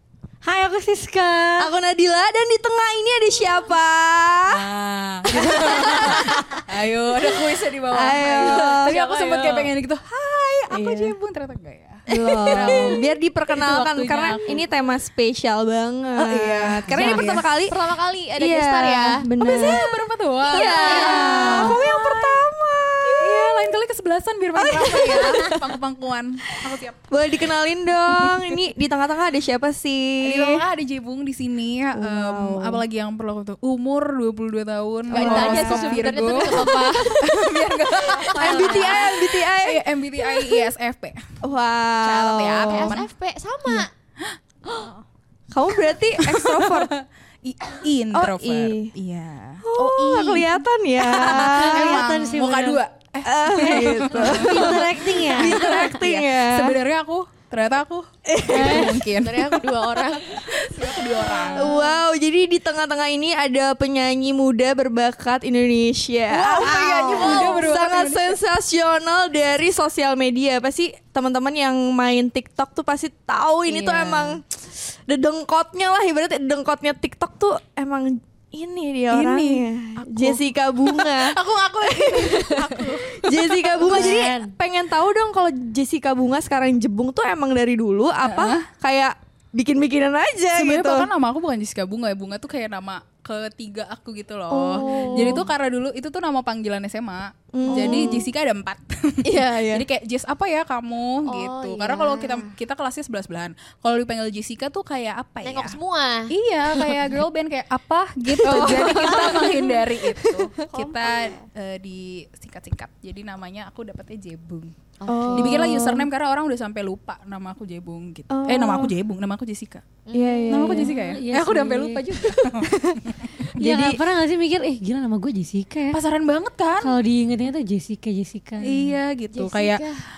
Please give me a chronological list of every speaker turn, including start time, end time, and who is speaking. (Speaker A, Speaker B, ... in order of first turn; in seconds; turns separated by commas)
Speaker A: 0.4-1.7, Speaker B: 1.6-4.6, Speaker C: 4.5-14.6, Speaker B: 5.3-6.6, Speaker B: 7.9-9.0, Speaker D: 8.6-9.7, Speaker B: 10.7-11.2, Speaker B: 12.1-17.8, Speaker C: 16.2-17.5, Speaker A: 16.9-17.3, Speaker D: 17.6-19.8, Speaker B: 18.4-19.9, Speaker C: 19.4-21.8, Speaker D: 20.4-21.9, Speaker B: 20.4-23.8, Speaker A: 21.2-21.7, Speaker C: 23.1-27.1, Speaker B: 24.6-25.8, Speaker B: 27.1-30.6, Speaker C: 28.1-28.6, Speaker C: 30.2-41.2, Speaker B: 31.9-32.8, Speaker B: 35.1-40.7, Speaker D: 35.1-37.2, Speaker D: 38.0-39.2, Speaker B: 41.4-43.0, Speaker C: 42.0-43.1, Speaker D: 42.7-43.9, Speaker C: 44.3-44.9, Speaker B: 45.5-46.9, Speaker C: 46.2-49.6, Speaker B: 48.1-48.9, Speaker B: 49.6-52.1, Speaker D: 49.7-50.6, Speaker A: 51.1-52.8, Speaker C: 51.2-59.6, Speaker B: 53.2-56.8, Speaker A: 54.1-55.9, Speaker B: 58.3-59.3, Speaker A: 58.5-58.9, Speaker D: 59.0-60.5, Speaker C: 60.2-61.8, Speaker B: 61.5-91.1, Speaker C: 66.3-68.4, Speaker D: 67.1-67.6, Speaker C: 73.7-74.4, Speaker C: 79.1-84.3, Speaker A: 83.9-84.5, Speaker C: 88.2-88.6, Speaker C: 90.5-105.8, Speaker B: 94.5-95.5, Speaker D: 94.8-95.3, Speaker B: 97.5-98.3, Speaker D: 97.8-98.2, Speaker B: 99.2-99.9, Speaker D: 101.3-102.6, Speaker D: 105.4-106.3, Speaker C: 106.3-114.7, Speaker B: 108.4-110.5, Speaker D: 108.6-109.2, Speaker D: 110.7-111.4, Speaker D: 115.0-115.8, Speaker B: 115.1-116.1, Speaker C: 115.3-119.8, Speaker B: 118.3-118.9, Speaker D: 120.1-120.8, Speaker B: 120.1-121.0, Speaker C: 120.5-123.5, Speaker A: 120.7-122.3, Speaker B: 122.6-123.0, Speaker A: 123.5-126.0, Speaker B: 123.6-124.0, Speaker C: 125.9-127.0, Speaker A: 126.8-128.9, Speaker C: 128.6-129.9, Speaker D: 129.3-130.0